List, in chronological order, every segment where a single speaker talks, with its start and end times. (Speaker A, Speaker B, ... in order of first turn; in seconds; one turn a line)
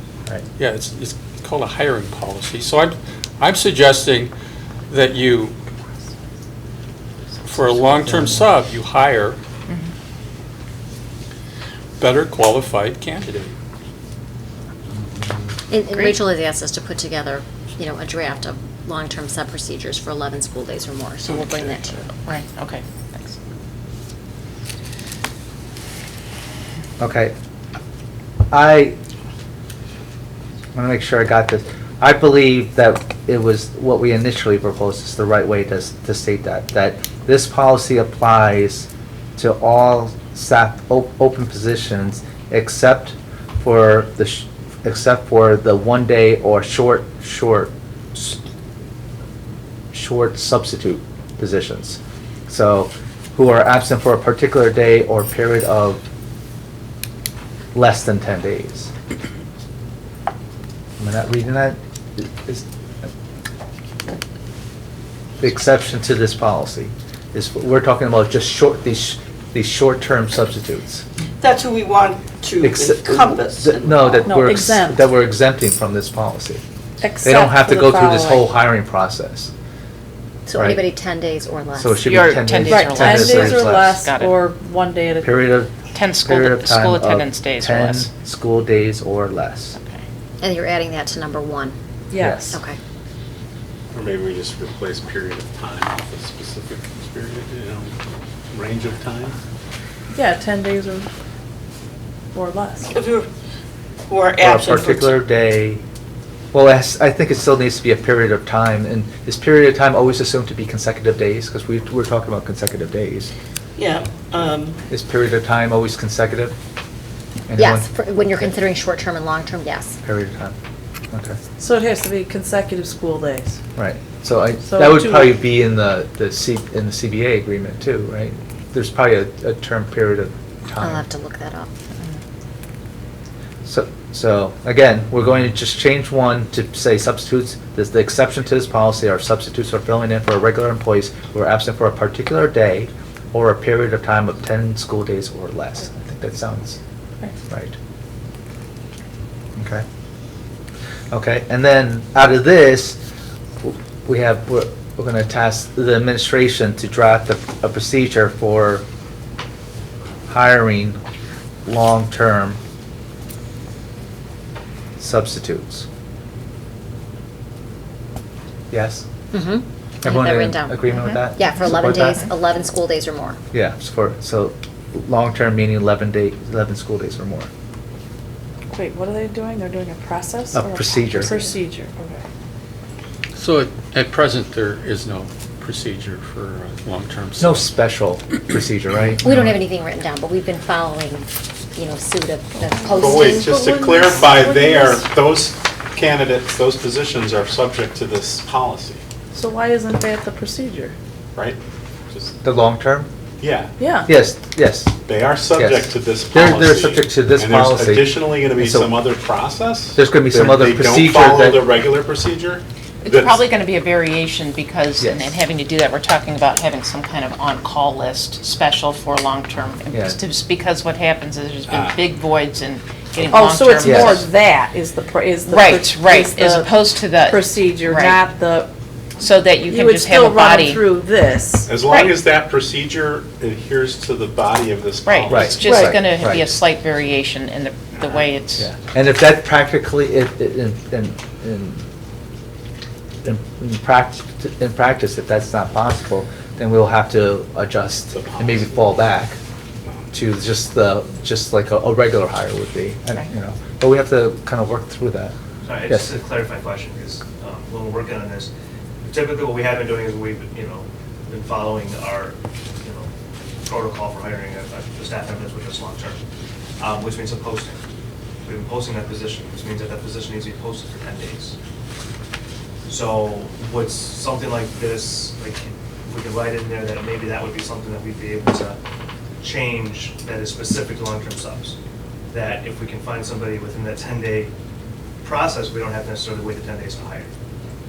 Speaker A: 0.6-4.3
Speaker A: 4.9-5.5
Speaker A: 7.4-9.4
Speaker B: 8.1-8.3
Speaker A: 12.0-13.5
Speaker C: 15.7-22.1
Speaker D: 15.9-16.2
Speaker D: 22.2-23.4
Speaker B: 27.0-27.3
Speaker B: 28.5-28.9
Speaker B: 30.7-48.4
Speaker B: 49.9-56.0
Speaker B: 57.7-58.9
Speaker B: 61.0-62.6
Speaker B: 65.4-71.0
Speaker E: 71.4-74.3
Speaker B: 72.6-76.6
Speaker F: 74.2-75.0
Speaker F: 77.0-78.5
Speaker B: 77.2-79.5
Speaker C: 80.5-82.2
Speaker B: 80.5-80.8
Speaker B: 81.8-84.0
Speaker D: 82.0-84.4
Speaker F: 82.7-85.5
Speaker B: 85.2-85.7
Speaker D: 85.9-88.1
Speaker B: 86.2-89.8
Speaker D: 89.8-90.0
Speaker C: 90.4-91.8
Speaker F: 92.1-92.5
Speaker B: 92.2-92.6
Speaker C: 92.5-92.8
Speaker G: 93.9-98.0
Speaker G: 98.5-99.4
Speaker F: 100.1-101.1
Speaker F: 102.3-102.9
Speaker E: 102.9-103.3
Speaker E: 104.1-105.2
Speaker B: 104.4-105.8
Speaker B: 106.5-113.3
Speaker E: 113.8-114.8
Speaker B: 114.9-116.5
Speaker B: 117.5-118.5
Speaker C: 117.6-120.0
Speaker B: 120.0-120.5
Speaker B: 121.1-121.4
Speaker F: 121.6-123.6
Speaker B: 123.8-131.0
Speaker F: 124.6-125.3
Speaker C: 130.8-131.7
Speaker B: 133.7-146.8
Speaker B: 147.5-147.7
Speaker B: 149.6-149.8
Speaker B: 151.1-153.0
Speaker B: 153.6-158.8
Speaker B: 160.3-161.0
Speaker B: 161.7-162.6
Speaker B: 165.0-165.8
Speaker B: 168.7-169.1
Speaker C: 169.3-173.4
Speaker B: 170.0-172.2
Speaker D: 170.9-171.2
Speaker B: 173.5-177.5
Speaker F: 178.7-182.2
Speaker B: 180.5-181.4
Speaker A: 183.4-187.7
Speaker B: 187.4-189.6
Speaker C: 189.2-193.6
Speaker F: 192.6-195.0
Speaker G: 192.9-199.0
Speaker F: 199.3-200.9
Speaker B: 202.4-203.1
Speaker G: 203.4-203.7
Speaker F: 203.8-204.1
Speaker B: 204.1-204.9
Speaker G: 205.1-213.4
Speaker B: 205.6-208.9
Speaker B: 209.9-211.6
Speaker D: 213.0-224.3
Speaker B: 215.0-215.3
Speaker B: 219.9-220.2
Speaker G: 221.7-222.0
Speaker F: 223.2-228.7
Speaker B: 223.8-224.2
Speaker D: 225.5-228.2
Speaker D: 229.2-230.8
Speaker F: 229.7-231.7
Speaker G: 231.7-235.9
Speaker D: 231.8-232.1
Speaker D: 235.0-238.7
Speaker B: 235.3-236.5
Speaker F: 235.7-235.9
Speaker B: 238.6-241.8
Speaker B: 243.2-249.4
Speaker G: 248.1-248.9
Speaker G: 249.8-250.1
Speaker B: 250.1-255.3
Speaker H: 255.6-258.5
Speaker H: 259.0-263.1
Speaker H: 263.6-266.2
Speaker H: 266.8-267.8
Speaker H: 268.4-271.6
Speaker H: 272.9-278.8
Speaker H: 279.4-281.8
Speaker H: 282.3-284.5
Speaker H: 285.2-287.3